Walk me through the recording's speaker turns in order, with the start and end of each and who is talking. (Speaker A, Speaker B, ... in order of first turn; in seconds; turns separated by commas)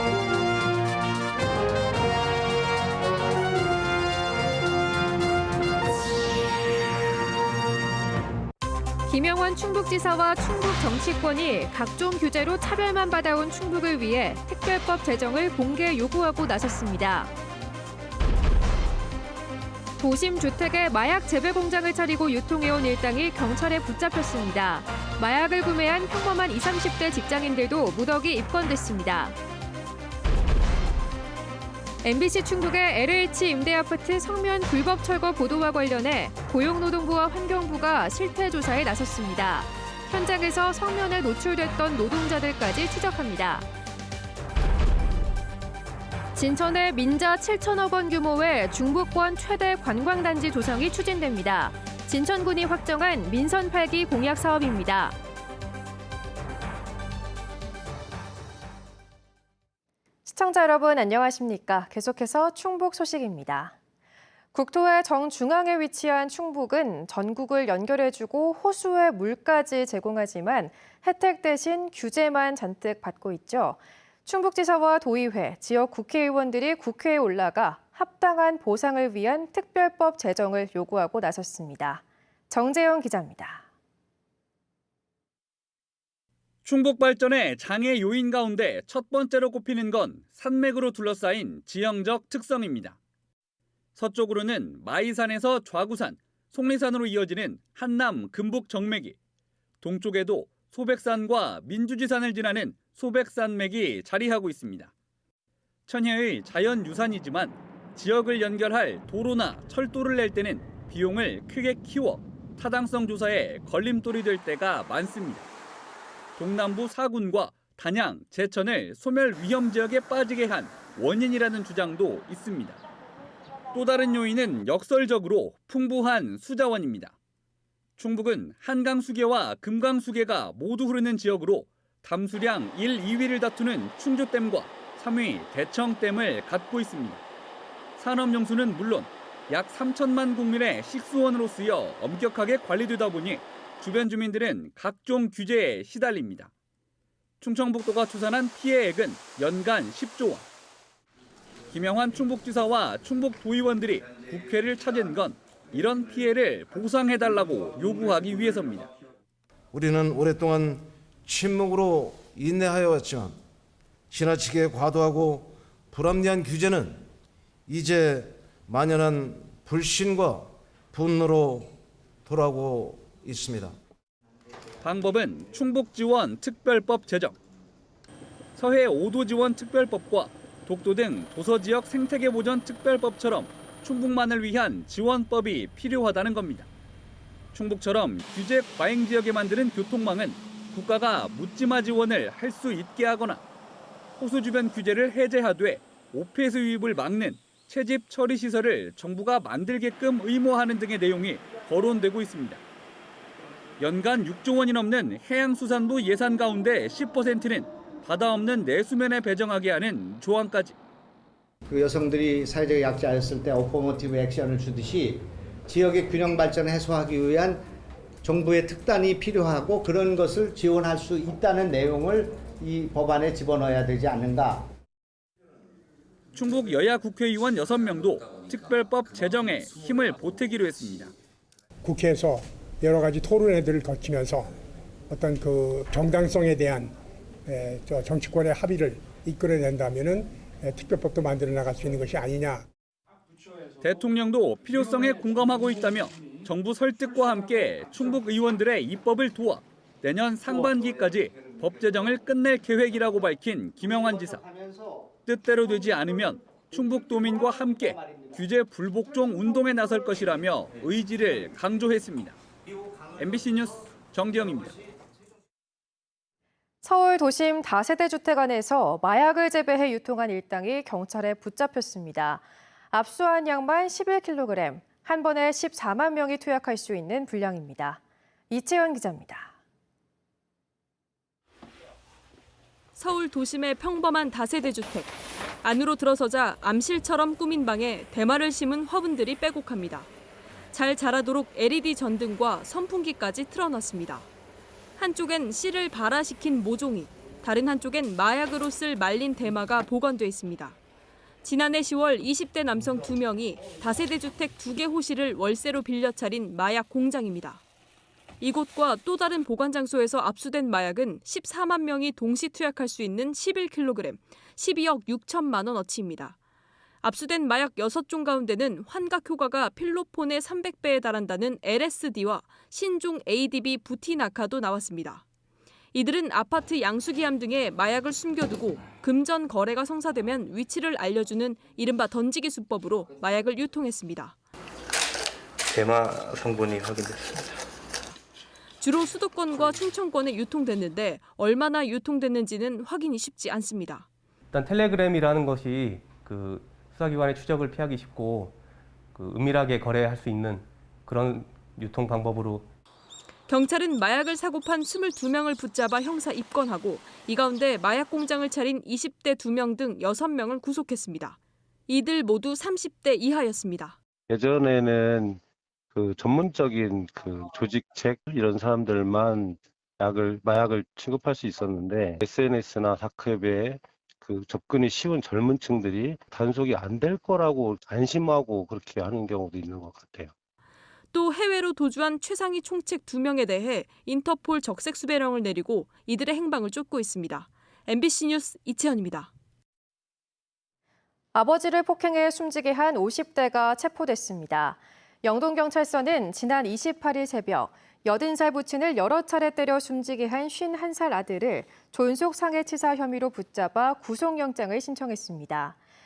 Speaker A: 9.1-17.3, Speaker A: 20.0-29.4, Speaker A: 32.0-43.7, Speaker A: 46.3-55.2, Speaker A: 60.2-63.8, Speaker A: 64.5-83.7, Speaker B: 86.6-93.0, Speaker B: 94.0-99.2, Speaker B: 99.8-104.9, Speaker B: 105.9-115.5, Speaker B: 116.4-122.8, Speaker B: 123.7-127.1, Speaker B: 128.0-137.2, Speaker B: 138.0-146.5, Speaker B: 147.4-150.4, Speaker B: 151.7-158.9, Speaker C: 159.7-163.4, Speaker C: 164.1-167.0, Speaker C: 167.7-171.7, Speaker C: 172.2-173.7, Speaker B: 174.8-177.3, Speaker B: 178.6-186.7, Speaker B: 187.5-193.4, Speaker B: 194.2-202.6, Speaker B: 203.8-210.7, Speaker D: 211.7-217.6, Speaker D: 218.2-224.7, Speaker B: 226.3-231.1, Speaker E: 231.8-234.5, Speaker E: 235.1-236.9, Speaker E: 237.5-242.6, Speaker B: 243.8-254.4, Speaker D: 254.4-255.0, Speaker B: 255.2-262.4, Speaker B: 263.2-264.8, Speaker A: 266.8-279.5, Speaker F: 282.9-290.1, Speaker F: 290.7-294.3, Speaker F: 295.0-300.8, Speaker F: 301.4-307.6, Speaker F: 308.4-316.4, Speaker F: 317.0-325.2, Speaker F: 325.9-334.4, Speaker G: 335.7-337.2, Speaker F: 338.8-344.1, Speaker H: 344.5-348.6, Speaker H: 349.1-352.7, Speaker F: 353.5-364.0, Speaker G: 364.3-365.4, Speaker G: 365.9-380.3, Speaker F: 381.1-389.3, Speaker A: 391.3-405.8